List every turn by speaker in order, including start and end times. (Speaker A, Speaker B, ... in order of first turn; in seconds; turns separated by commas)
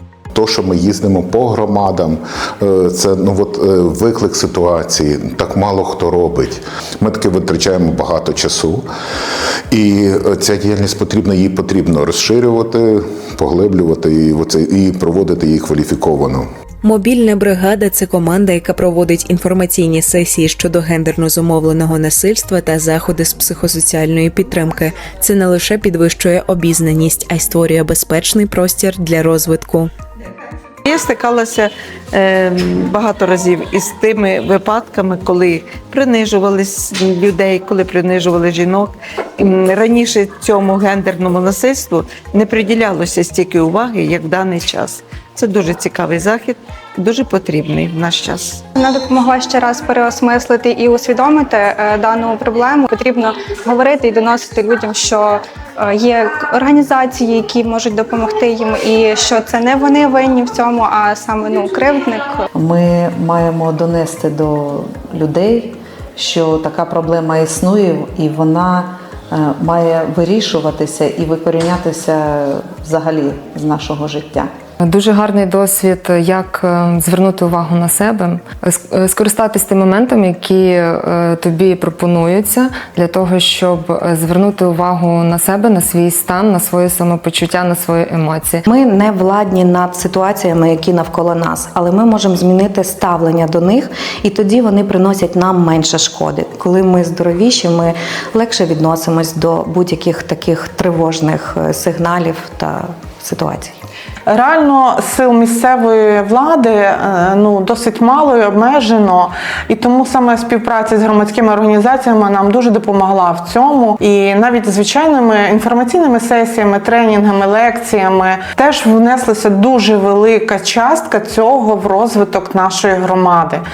Speaker A: 0.3-8.8, Speaker A: 9.7-16.4, Speaker B: 16.8-29.9, Speaker C: 30.9-48.6, Speaker D: 48.8-62.5, Speaker E: 62.6-74.5, Speaker F: 74.8-88.6, Speaker G: 88.7-103.8, Speaker H: 104.3-123.6